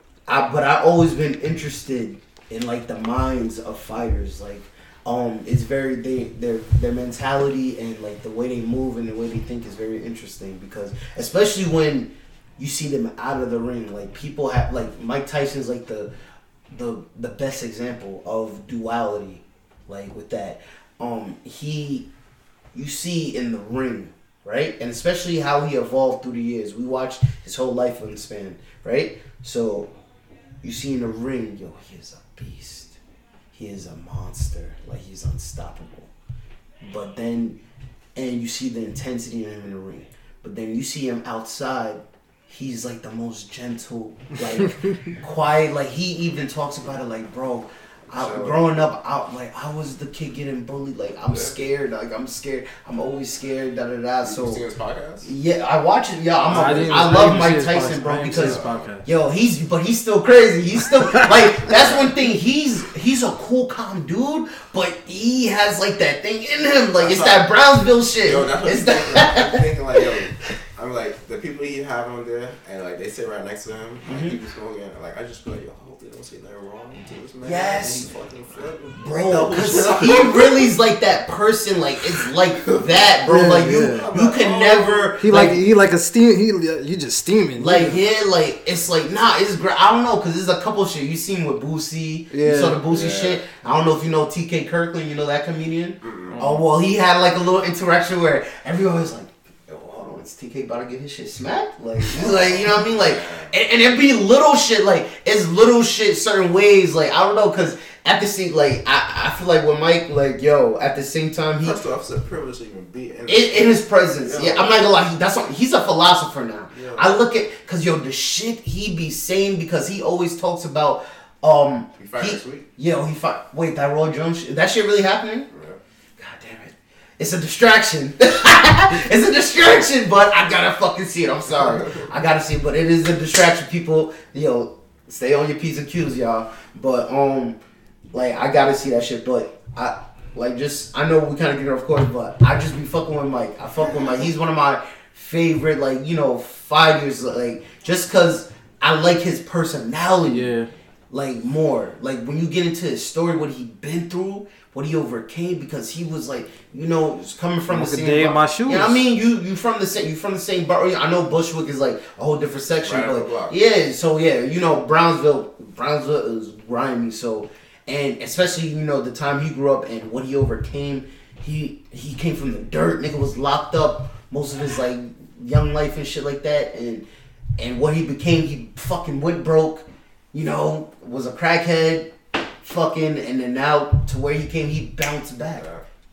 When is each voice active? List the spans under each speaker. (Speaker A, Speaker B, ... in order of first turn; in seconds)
Speaker A: 0.3-16.1, 16.7-22.1, 22.7-29.9, 30.6-33.0, 33.5-36.1, 36.8-37.6, 38.1-54.6, 55.2-70.1, 74.1-74.3, 77.4-78.1, 79.0-85.6, 87.6-111.8, 113.3-125.5, 126.2-137.6, 138.1-150.5, 151.1-177.1, 177.6-185.7
Speaker B: 48.1-48.8, 51.3-51.6, 54.2-55.3, 56.5-57.4, 58.3-59.0, 61.5-62.2, 67.0-67.5, 68.2-80.7, 83.5-85.1, 92.9-93.4, 96.0-96.4, 102.1-103.5, 111.6-114.8, 116.7-117.2, 122.0-122.7, 125.5-125.8, 162.8-163.6, 185.5-185.8
Speaker C: 56.5-59.0, 61.1-61.5, 83.2-84.1, 85.2-88.0, 92.3-92.8, 96.3-96.6, 150.3-150.7, 157.7-159.0